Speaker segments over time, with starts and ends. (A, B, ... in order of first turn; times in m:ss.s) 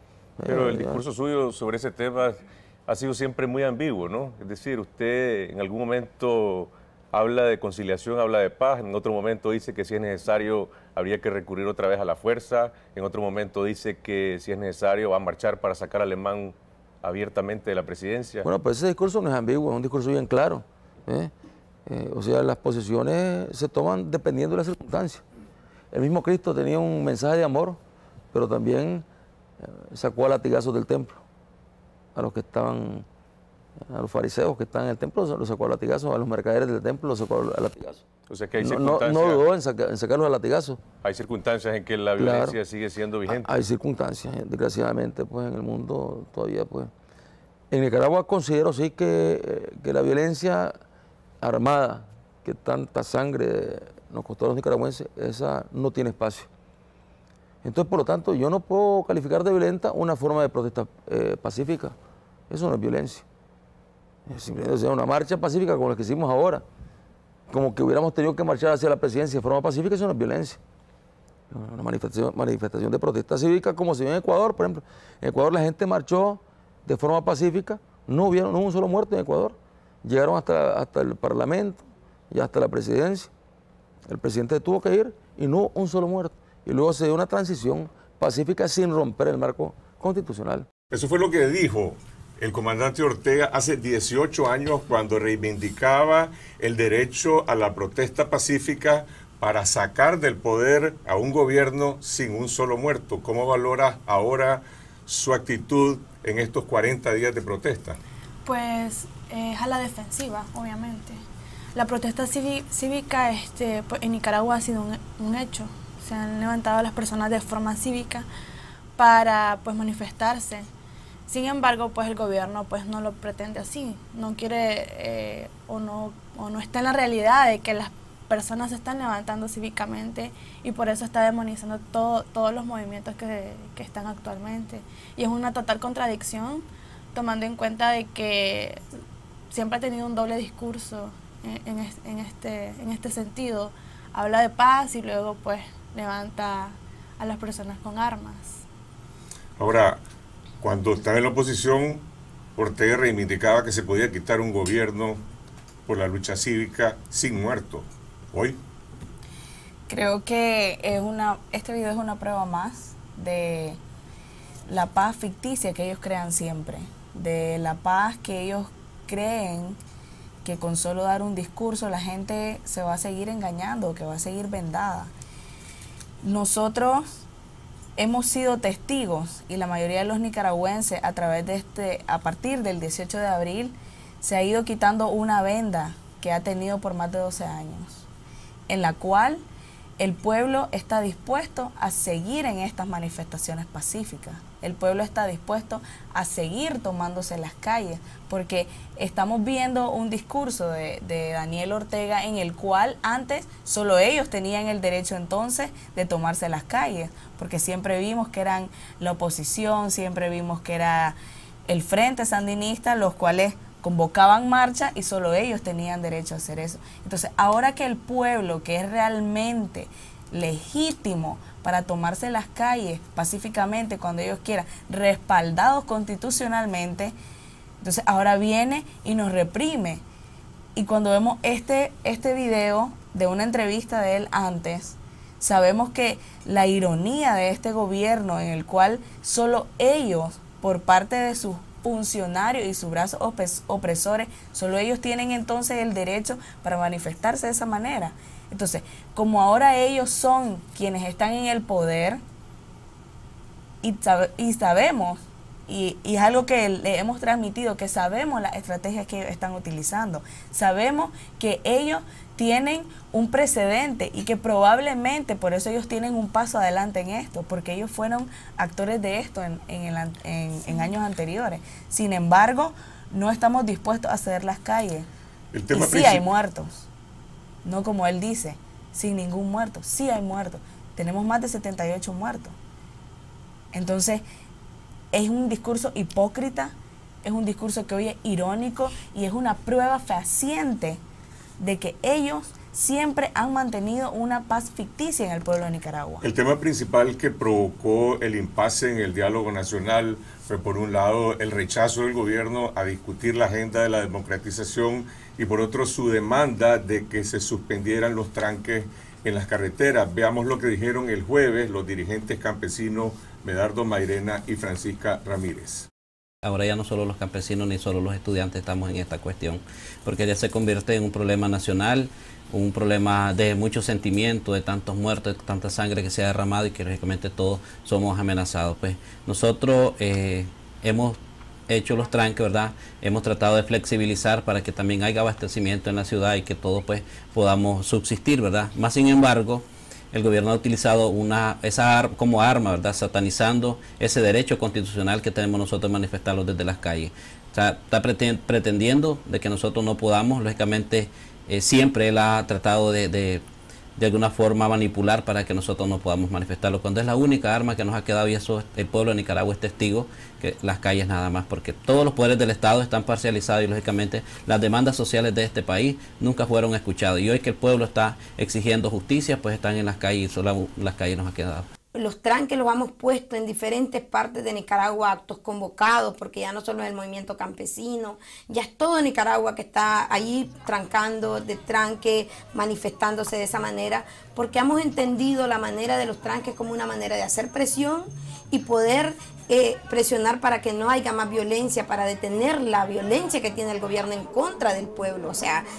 0:00.4-0:01.0 A
0:00.4-0:18.5 B
0:18.4-0:21.3 A
0:21.9-0:25.2 A
0:25.9-0:27.8 A
0:28.3-0:29.0 A
0:29.6-0:31.2 A
0:32.2-0:33.1 A
0:33.9-0:38.1 A
0:38.3-0:39.4 B
0:38.6-0:40.8 A
0:41.0-0:43.5 B
0:42.2-0:42.6 A
0:43.3-0:46.9 A
0:47.7-0:50.8 A
0:51.4-0:56.5 A
0:57.6-1:02.0 A
1:02.5-1:03.2 A
1:04.3-1:06.6 A
1:07.5-1:10.6 A
1:11.5-1:23.3 A
1:24.1-1:30.7 A
1:30.9-1:48.0 C
1:48.4-1:51.2 D
1:51.8-1:58.3 D
1:59.0-2:00.7 D
2:01.3-2:18.8 D
2:19.5-2:28.6 D
2:29.6-2:30.0 C
2:30.6-2:32.0 C
2:32.6-2:35.2 C
2:35.9-2:38.6 C
2:39.9-2:43.8 E
2:44.7-2:49.8 E
2:50.4-2:55.1 E
2:56.2-2:57.2 E
2:58.0-3:08.1 E
3:08.7-3:09.4 E
3:10.0-3:31.2 E
3:31.7-3:47.2 E
3:47.8-3:50.0 E
3:50.8-4:12.2 E
4:13.8-4:35.1 E
4:35.5-4:36.3 C
4:35.7-4:36.9 E
4:37.6-4:42.6 E
4:43.7-4:44.2 E
4:45.1-4:46.7 E
4:47.2-4:51.0 E
4:51.6-4:56.3 E
4:56.2-5:15.9 C
5:16.4-5:53.4 F
5:54.0-6:11.7 F
6:12.0-6:35.6 G